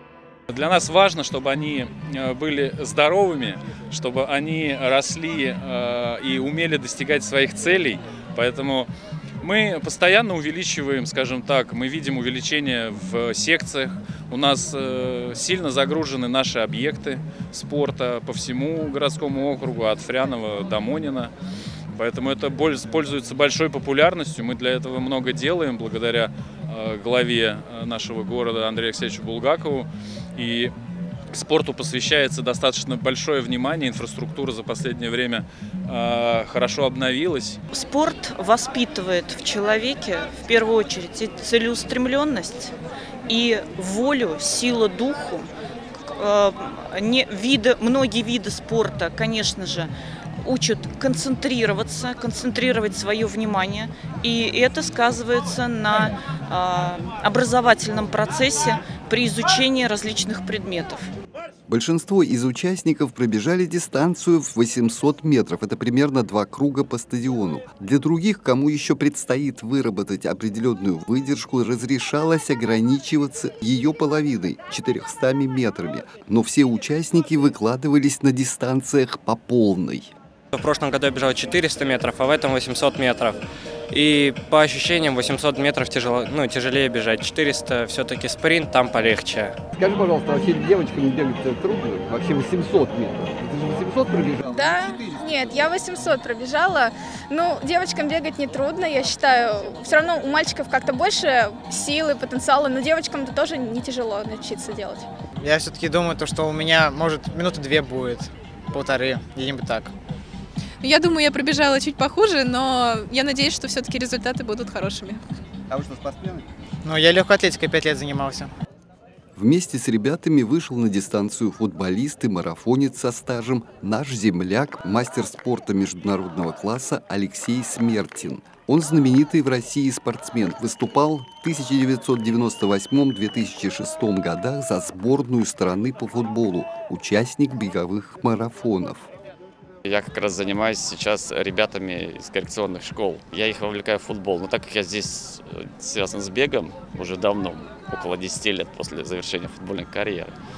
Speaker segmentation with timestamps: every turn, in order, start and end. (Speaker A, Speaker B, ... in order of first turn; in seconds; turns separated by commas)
Speaker A: 0.5-8.9, Speaker A: 9.4-21.3, Speaker A: 21.9-30.7, Speaker A: 31.3-37.6, Speaker B: 37.7-42.7, Speaker B: 43.3-45.5, Speaker B: 46.0-49.9, Speaker B: 50.4-61.0, Speaker C: 61.7-80.1, Speaker D: 80.5-83.4, Speaker D: 83.9-89.6, Speaker C: 89.7-95.7, Speaker E: 94.5-105.0, Speaker F: 105.4-109.9, Speaker G: 110.8-115.2, Speaker C: 115.7-116.5, Speaker F: 116.8-118.5, Speaker C: 119.3-139.1, Speaker H: 139.8-150.3